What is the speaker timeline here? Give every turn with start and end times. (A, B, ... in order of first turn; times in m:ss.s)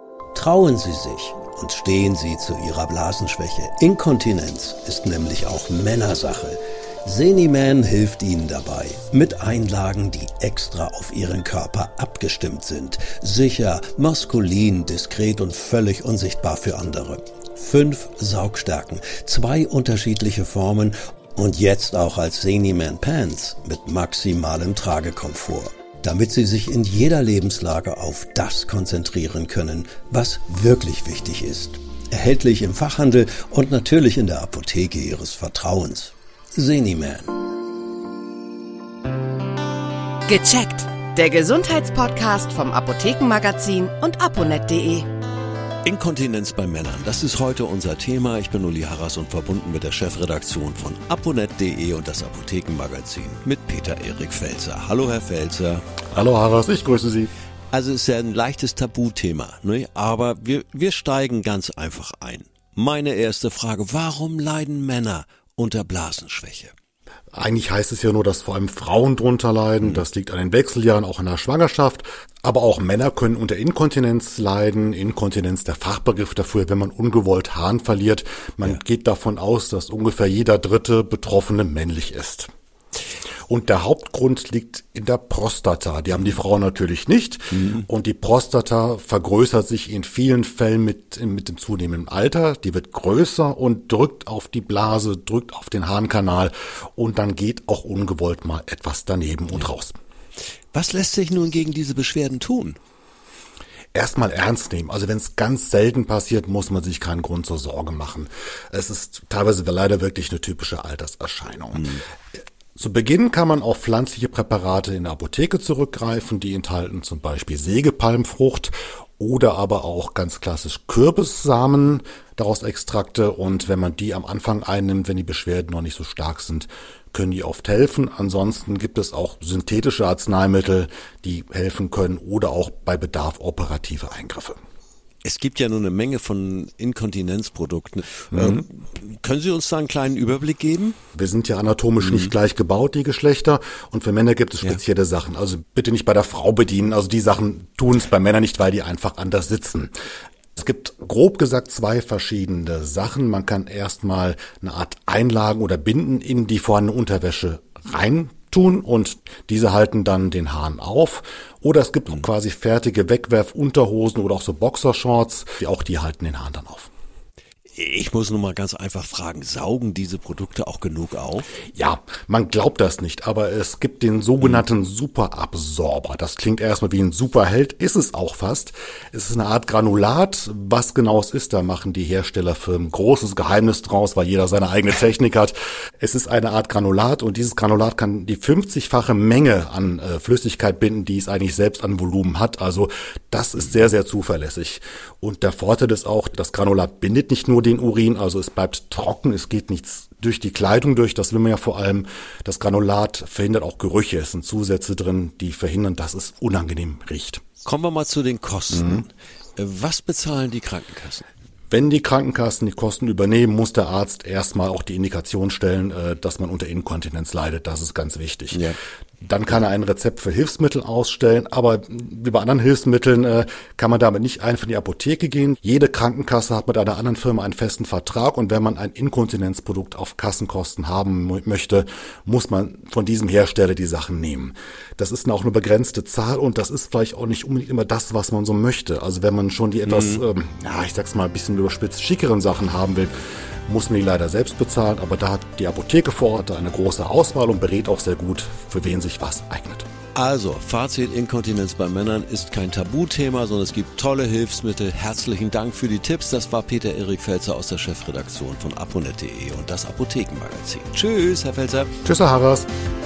0:00.3-0:37.3 A
0:40.3-0:45.1 B
0:45.8-0:55.8 A
0:56.1-0:57.3 C
0:57.7-1:06.7 A
1:07.3-1:22.5 C
1:23.5-1:40.0 C
1:40.7-1:42.8 A
1:43.9-1:52.0 C
1:51.8-1:52.0 A
1:52.8-2:14.6 C
2:15.2-2:21.0 A
2:18.3-2:18.6 C
2:21.1-2:29.9 C
2:22.0-2:22.3 A
2:30.6-2:46.9 C
2:47.7-2:51.4 A
2:51.7-3:27.4 C
3:27.6-3:31.2 A
3:31.7-3:38.7 C
3:39.2-4:03.1 C
3:59.9-4:00.2 A
4:03.6-4:09.8 C
4:10.1-4:21.9 A
4:22.0-4:22.7 C